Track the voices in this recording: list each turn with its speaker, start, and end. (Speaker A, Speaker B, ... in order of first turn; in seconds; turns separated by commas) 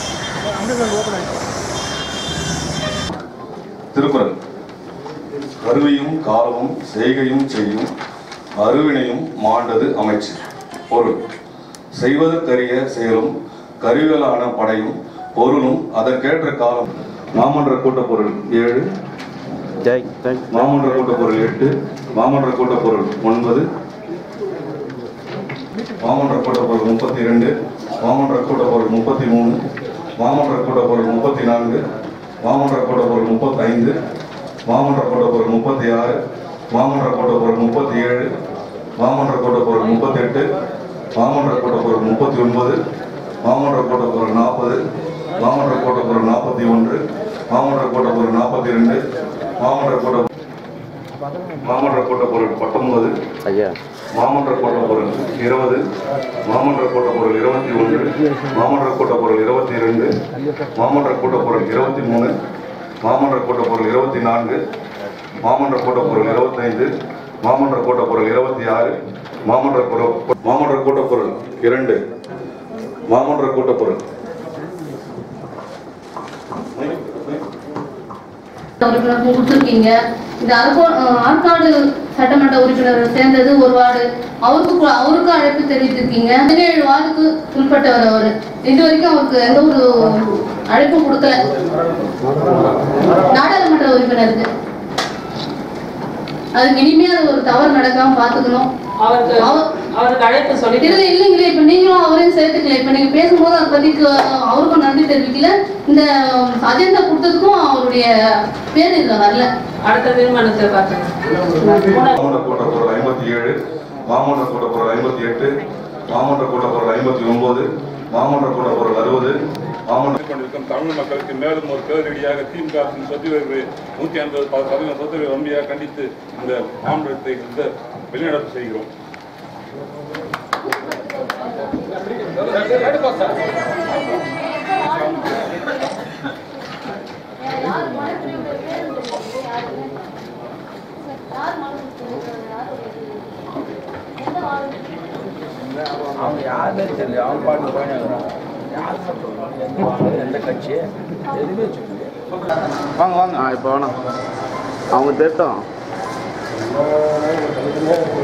Speaker A: 3.9-4.3, Speaker A: 5.6-7.9, Speaker A: 8.6-11.2, Speaker A: 11.9-18.8, Speaker B: 19.8-20.7, Speaker A: 20.5-23.6, Speaker A: 26.0-29.6, Speaker A: 30.2-31.8, Speaker A: 32.4-34.0, Speaker A: 34.6-36.2, Speaker A: 36.7-38.3, Speaker A: 39.0-40.5, Speaker A: 41.1-42.8, Speaker A: 43.4-44.8, Speaker A: 45.4-49.0, Speaker A: 49.6-50.3, Speaker A: 51.6-53.1, Speaker B: 53.4-53.8, Speaker A: 54.1-55.8, Speaker A: 56.4-60.1, Speaker A: 60.7-62.3, Speaker A: 63.0-64.6, Speaker A: 65.4-66.9, Speaker A: 67.4-68.9, Speaker A: 69.5-72.0, Speaker A: 73.1-74.0, Speaker C: 78.8-91.4, Speaker C: 93.2-94.5, Speaker C: 96.5-98.7, Speaker D: 99.0-101.0, Speaker C: 99.4-99.7, Speaker C: 100.8-109.5, Speaker D: 109.8-112.2, Speaker A: 112.2-113.5, Speaker A: 114.0-115.6, Speaker A: 116.1-119.3, Speaker A: 119.9-120.2, Speaker E: 120.2-128.9, Speaker C: 137.5-139.7, Speaker C: 141.4-142.9, Speaker F: 146.0-152.1, Speaker B: 153.0-154.0, Speaker B: 154.9-155.6